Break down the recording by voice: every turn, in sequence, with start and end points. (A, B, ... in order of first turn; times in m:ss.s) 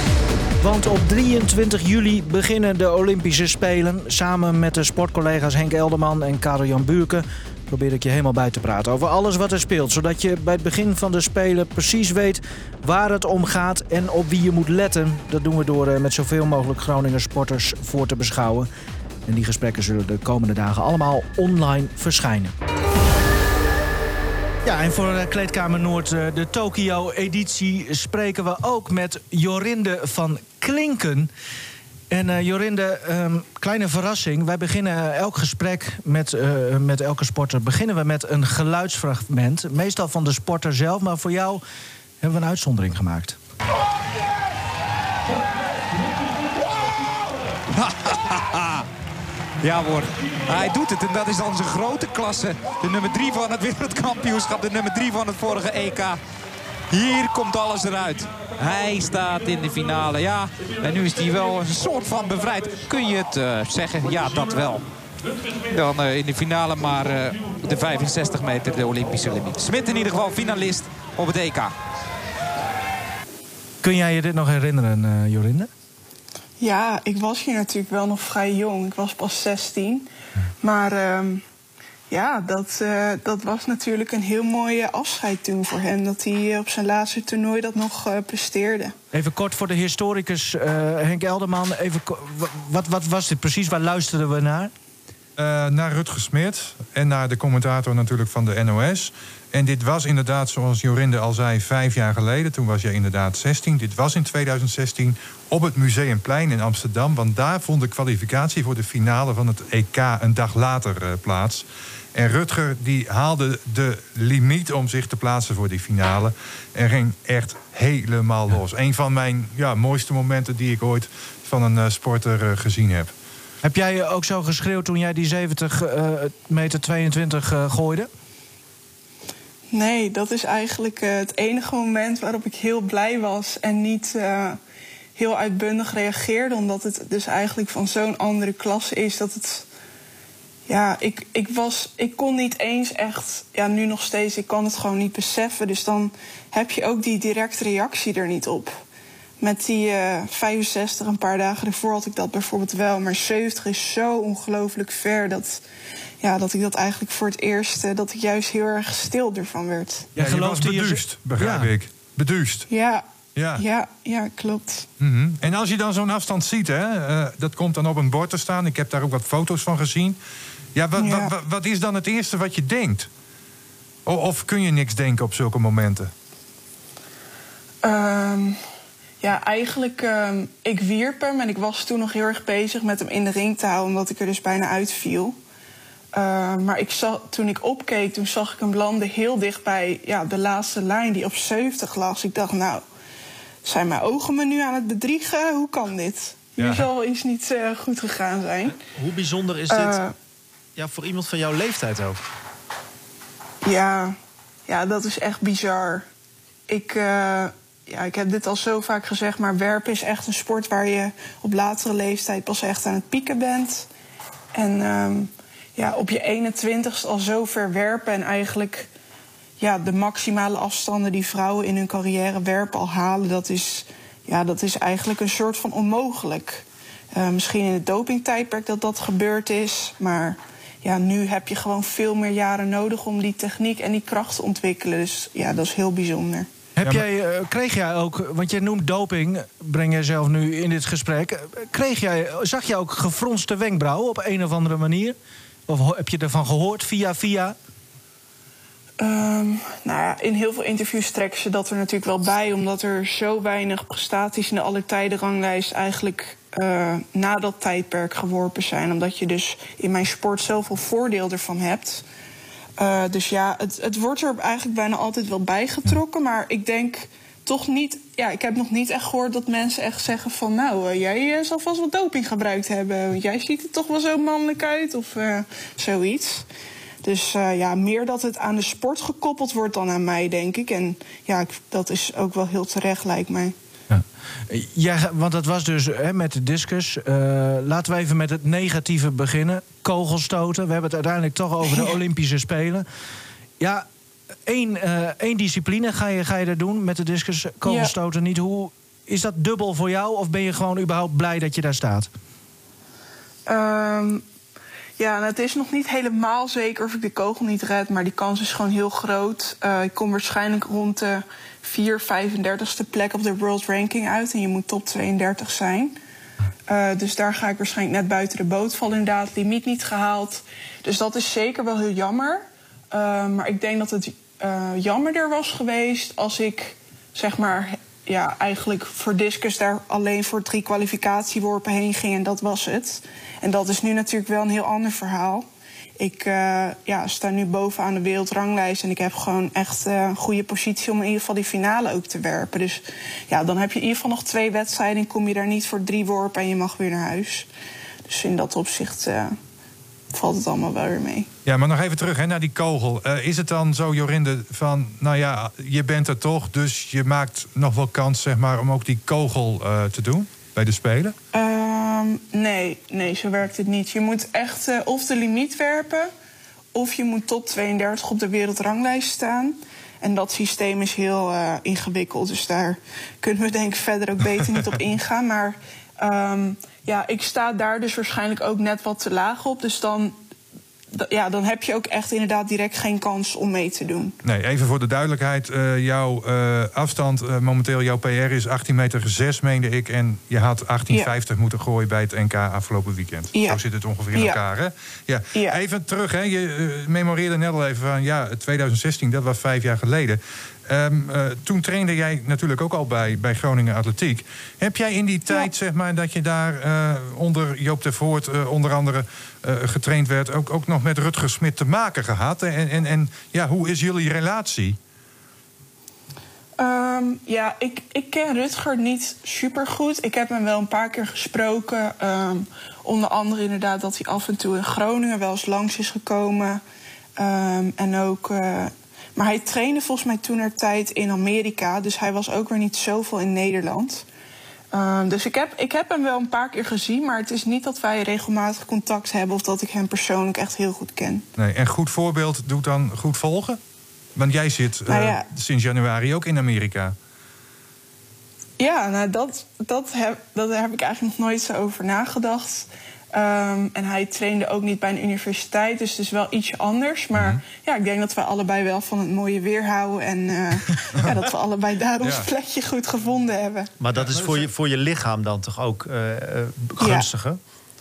0:00.6-0:18.7 A
0:19.2-0:22.5 A
0:24.6-0:31.3 A
0:32.1-0:41.6 A
0:42.2-0:43.4 A
0:47.7-0:48.8 B
0:49.6-0:56.2 B
0:56.9-1:04.8 B
1:05.7-1:11.7 B
1:13.8-1:15.7 A
1:16.6-1:20.1 C
1:20.6-1:21.4 C
1:22.1-1:28.9 C
1:29.1-1:34.7 A
1:35.4-1:51.6 D
1:52.1-2:03.1 D
2:03.6-2:08.1 A
2:09.7-2:14.6 C
2:15.2-2:19.6 C
2:20.7-2:28.8 C
2:29.4-2:35.6 C
2:36.2-2:40.1 C
2:40.2-2:41.7 A
2:40.2-2:42.7 D
2:42.7-2:43.0 C
2:43.4-2:43.6 D
2:43.6-2:44.9 C
2:45.0-2:50.2 D
2:50.7-2:53.1 D
2:51.0-2:51.3 C
2:54.0-2:56.1 D
2:57.8-2:58.6 C
2:59.2-3:05.4 C
3:06.1-3:12.8 C
3:13.6-3:18.8 C
3:16.6-3:16.9 D
3:18.9-3:20.0 E
3:19.7-3:20.1 C
3:20.8-3:22.2 E
3:23.6-3:26.0 C
3:26.7-3:33.9 C
3:34.5-3:38.9 C
3:39.6-3:56.5 C
3:56.8-4:05.2 A
4:05.7-4:07.6 A
4:09.0-4:22.0 C
4:22.8-4:36.4 C
4:37.0-4:43.5 C
4:43.9-4:52.8 A
4:53.6-4:53.8 A
4:54.4-5:02.1 A
4:57.6-4:57.9 C
5:03.4-5:04.2 C
5:05.0-5:16.0 C
5:16.7-5:35.5 C
5:36.0-5:47.5 C
5:48.1-5:49.4 C
5:50.1-5:51.3 C
5:51.4-6:01.1 D
6:01.3-6:06.1 C
6:06.7-6:20.2 C
6:20.9-6:24.2 C
6:24.2-6:54.8 D
6:33.3-6:33.6 C
6:34.1-6:34.4 C
6:35.3-6:35.6 C
6:56.6-7:06.6 C
7:07.2-7:14.0 C
7:14.7-7:21.2 C
7:21.4-7:23.6 D
7:24.2-7:26.9 D
7:24.9-7:25.3 C
7:28.6-7:43.7 C
7:37.1-7:37.4 D
7:43.8-7:47.4 E
7:43.9-7:44.5 D
7:46.8-7:47.1 C